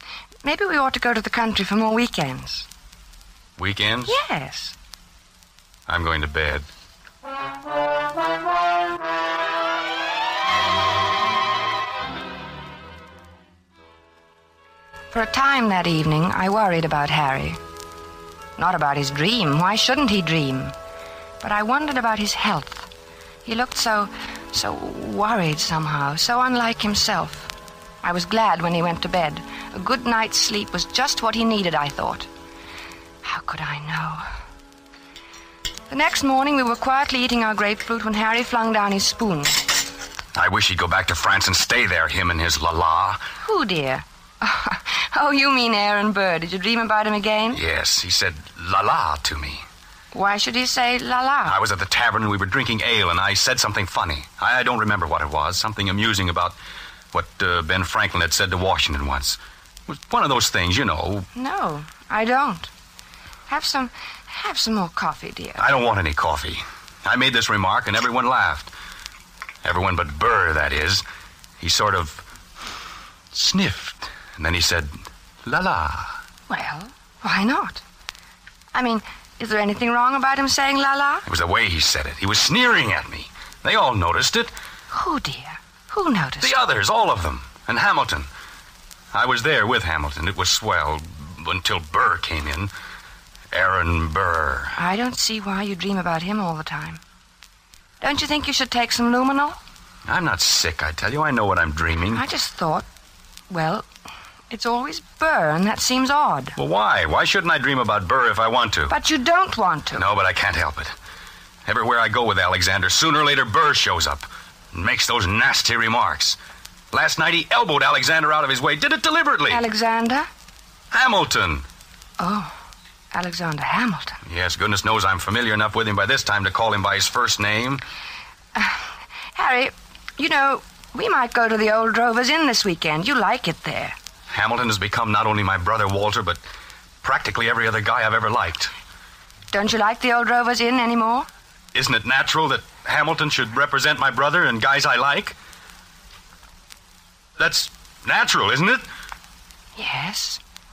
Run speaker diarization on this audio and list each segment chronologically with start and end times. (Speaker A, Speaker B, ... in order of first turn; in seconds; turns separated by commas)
Speaker A: 0.4-2.7, Speaker B: 3.6-4.1, Speaker A: 4.1-4.8, Speaker B: 5.9-6.7, Speaker A: 15.1-17.6, Speaker A: 18.6-20.7, Speaker A: 21.4-22.9, Speaker A: 23.4-27.5, Speaker A: 28.0-32.3, Speaker A: 33.2-34.2, Speaker A: 35.9-39.6, Speaker B: 40.3-43.2, Speaker A: 43.4-47.6, Speaker B: 47.5-49.6, Speaker A: 50.1-51.6, Speaker B: 51.4-56.5, Speaker B: 57.1-61.3, Speaker A: 61.3-62.7, Speaker A: 63.5-65.6, Speaker B: 65.6-68.7, Speaker B: 69.6-71.0, Speaker B: 71.6-72.2, Speaker B: 73.3-76.2, Speaker A: 76.5-77.8, Speaker A: 78.7-81.2, Speaker B: 81.2-84.5, Speaker A: 84.9-86.5, Speaker B: 86.4-88.3, Speaker B: 89.1-92.7, Speaker B: 93.5-94.7, Speaker A: 94.7-97.0, Speaker A: 98.0-99.6, Speaker B: 100.1-102.2, Speaker A: 102.1-102.8, Speaker A: 103.5-103.8, Speaker A: 104.5-106.5, Speaker B: 106.6-108.9, Speaker A: 108.9-110.0, Speaker B: 110.0-110.9, Speaker B: 111.6-116.4, Speaker B: 116.9-119.6, Speaker A: 119.5-120.3, Speaker B: 120.9-121.7, Speaker A: 122.2-122.5, Speaker A: 123.1-124.2, Speaker B: 124.2-127.8, Speaker A: 128.5-133.9, Speaker B: 134.3-136.4, Speaker B: 137.0-138.7, Speaker A: 139.5-141.3, Speaker B: 141.7-145.3, Speaker B: 147.4-148.8, Speaker A: 149.8-150.4